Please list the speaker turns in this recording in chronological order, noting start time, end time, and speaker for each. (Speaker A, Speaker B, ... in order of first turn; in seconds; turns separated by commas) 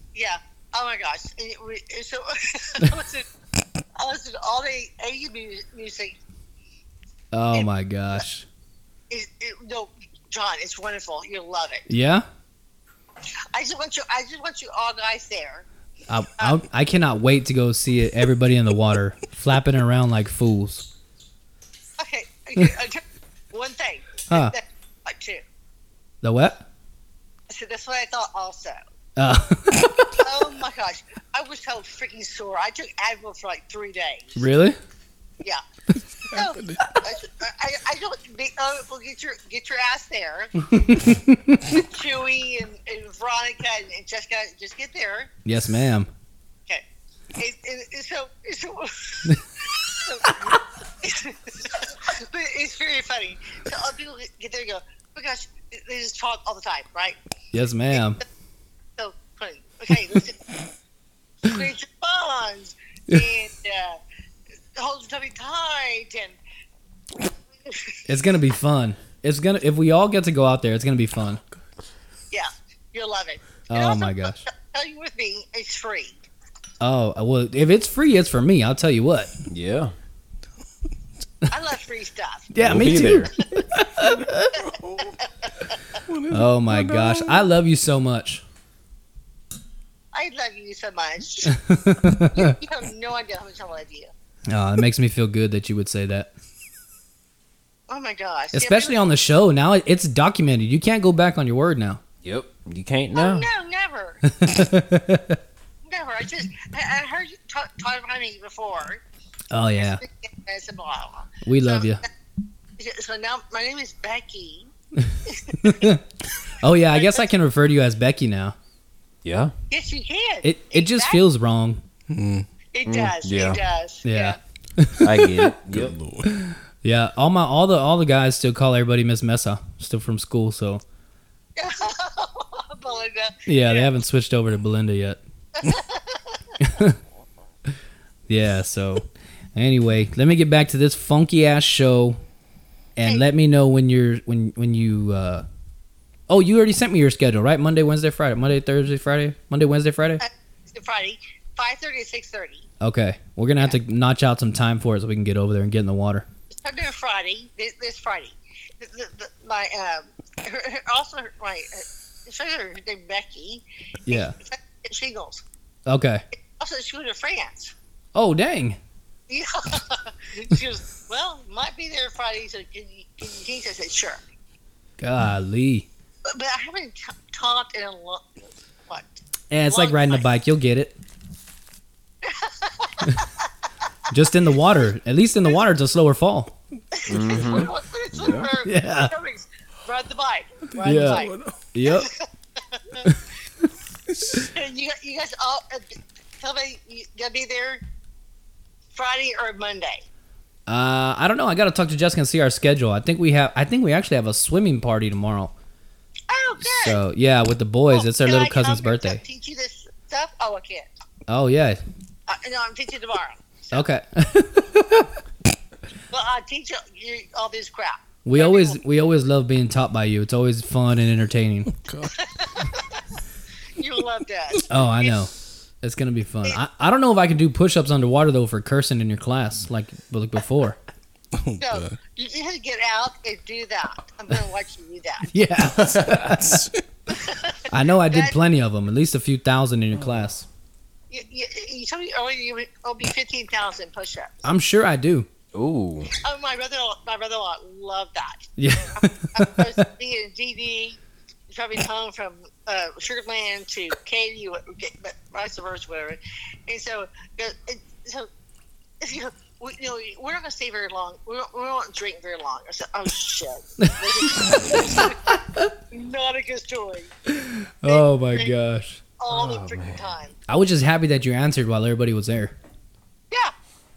Speaker A: 0.1-3.3, Speaker A: 4.0-6.2, Speaker B: 7.3-8.4, Speaker A: 9.1-11.9, Speaker B: 11.9-12.2, Speaker A: 13.5-15.6, Speaker B: 16.1-20.9, Speaker A: 22.0-25.4, Speaker B: 24.3-24.6, Speaker B: 26.2-26.6, Speaker A: 27.5-28.8, Speaker B: 29.2-30.3, Speaker A: 30.1-34.4, Speaker B: 34.4-34.8, Speaker C: 36.2-37.0, Speaker A: 36.3-40.7, Speaker B: 40.6-41.8, Speaker A: 41.6-45.3, Speaker B: 45.4-46.1, Speaker A: 47.4-57.2, Speaker B: 50.3-50.5, Speaker B: 57.5-58.2, Speaker A: 59.0-60.5, Speaker A: 61.4-64.0, Speaker A: 64.8-66.3, Speaker A: 67.6-68.0, Speaker B: 68.1-71.4, Speaker A: 72.3-76.2, Speaker B: 73.7-74.4, Speaker B: 76.8-79.3, Speaker D: 79.5-79.9, Speaker A: 81.5-82.5, Speaker B: 82.5-84.6, Speaker D: 82.6-83.3, Speaker C: 84.0-85.2, Speaker C: 86.0-87.5, Speaker B: 86.3-88.4, Speaker A: 90.1-91.6, Speaker B: 91.5-92.6, Speaker A: 92.1-94.1, Speaker B: 94.5-96.3, Speaker A: 97.9-99.0, Speaker B: 98.5-102.0, Speaker D: 102.2-103.5, Speaker A: 103.1-104.3, Speaker B: 104.3-105.4, Speaker A: 105.9-109.0, Speaker B: 109.5-110.0, Speaker A: 109.8-112.0, Speaker B: 111.4-112.0, Speaker A: 112.8-114.7, Speaker B: 115.0-116.0, Speaker A: 115.2-115.9, Speaker B: 116.6-118.5, Speaker A: 116.9-117.2, Speaker D: 119.2-119.5, Speaker A: 119.7-121.2, Speaker B: 120.4-121.8, Speaker C: 122.1-122.5, Speaker A: 122.7-124.4, Speaker D: 122.8-123.6, Speaker B: 124.0-125.5, Speaker D: 125.0-125.9, Speaker C: 125.7-126.3, Speaker B: 126.3-130.8, Speaker A: 131.6-133.9, Speaker B: 133.4-135.2, Speaker A: 135.6-136.5, Speaker B: 136.6-137.0, Speaker B: 138.3-142.2, Speaker B: 143.0-145.4, Speaker B: 146.3-150.2, Speaker A: 150.2-152.7, Speaker B: 152.8-156.3, Speaker A: 156.5-165.4, Speaker B: 164.1-164.3, Speaker B: 165.8-166.2, Speaker A: 166.5-167.7, Speaker B: 168.1-168.8, Speaker A: 169.3-174.2, Speaker B: 175.0-175.9, Speaker A: 176.3-180.3, Speaker B: 179.5-181.0, Speaker A: 182.2-183.4, Speaker B: 184.1-186.5, Speaker A: 186.9-193.1, Speaker D: 187.1-188.5, Speaker C: 187.3-187.6, Speaker B: 188.6-189.1, Speaker C: 190.7-191.6, Speaker B: 190.8-192.1, Speaker C: 194.1-194.5, Speaker A: 194.4-197.8, Speaker A: 198.9-200.0, Speaker B: 200.7-205.5, Speaker A: 206.3-207.0, Speaker B: 206.6-209.2, Speaker A: 207.9-210.9, Speaker B: 211.3-211.8, Speaker A: 212.3-213.8, Speaker B: 213.7-215.1, Speaker A: 216.1-218.8, Speaker B: 218.2-221.7, Speaker C: 221.7-222.2, Speaker A: 222.1-223.0, Speaker A: 223.8-225.2, Speaker B: 224.7-230.8, Speaker C: 231.3-232.0, Speaker A: 231.6-235.3, Speaker B: 235.3-236.7, Speaker C: 235.6-236.8, Speaker A: 237.1-238.4, Speaker B: 237.7-240.4, Speaker A: 241.1-244.5, Speaker B: 244.4-245.3, Speaker D: 245.5-246.1, Speaker A: 246.2-251.0, Speaker B: 248.6-249.8, Speaker A: 251.5-258.3, Speaker A: 259.0-267.1, Speaker B: 263.8-265.1, Speaker B: 267.3-269.0, Speaker A: 267.9-268.5, Speaker A: 269.2-270.3, Speaker D: 269.3-270.1, Speaker B: 270.5-272.5